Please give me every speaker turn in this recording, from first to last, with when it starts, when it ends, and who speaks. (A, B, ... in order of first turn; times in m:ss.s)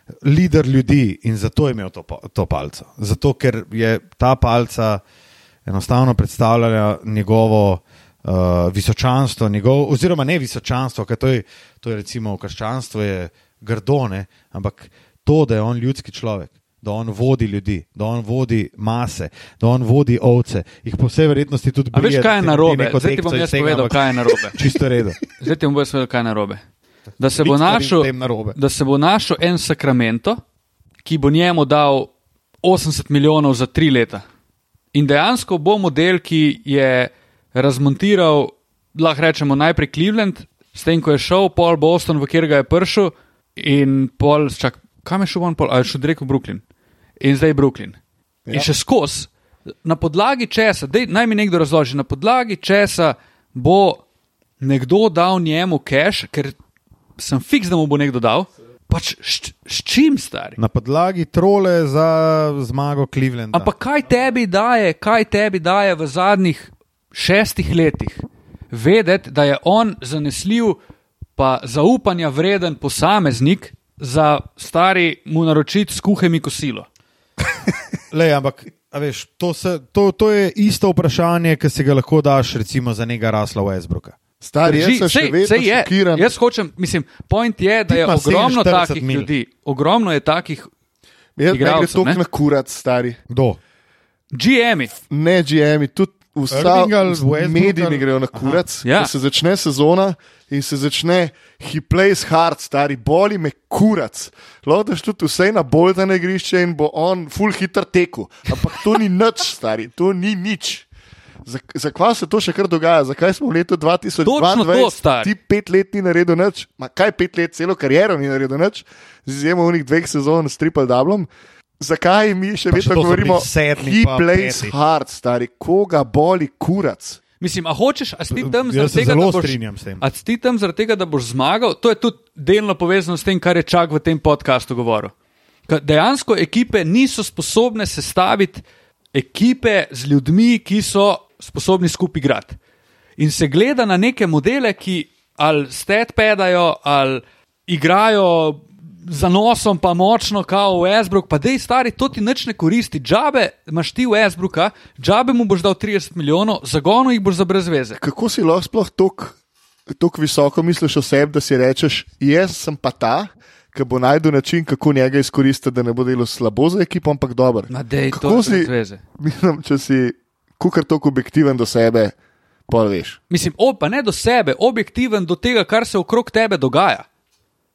0:00.2-0:05.0 A
0:05.6-0:25.2 A
0:21.9-0:24.6 B
0:25.4-0:26.6 B
0:27.2-0:30.4 B
0:27.4-0:28.6 A
0:31.0-0:32.1 B
0:32.6-0:34.2 B
0:34.9-0:46.6 B
0:47.2-0:48.0 B
0:48.5-0:49.3 B
0:49.8-0:54.0 B
0:54.6-0:56.6 B
0:57.2-1:00.6 B
1:00.6-1:03.7 A
1:03.5-1:10.8 B
1:11.4-1:16.9 B
1:18.1-1:24.2 A
1:24.4-1:26.3 C
1:24.6-1:30.7 B
1:27.9-1:29.3 A
1:31.4-1:33.2 C
1:31.5-1:32.2 B
1:33.3-1:33.6 A
1:34.3-1:34.9 B
1:35.1-1:50.9 C
1:36.5-1:38.6 A
1:38.8-1:39.1 B
1:51.4-2:07.2 C
1:54.2-1:55.3 B
2:02.7-2:04.7 A
2:07.4-2:15.1 B
2:08.3-2:10.0 A
2:15.7-2:22.6 B
2:23.2-2:38.0 B
2:38.0-2:39.4 C
2:39.9-2:52.2 C
2:47.7-2:49.0 B
2:52.7-2:53.2 C
2:53.3-2:57.1 B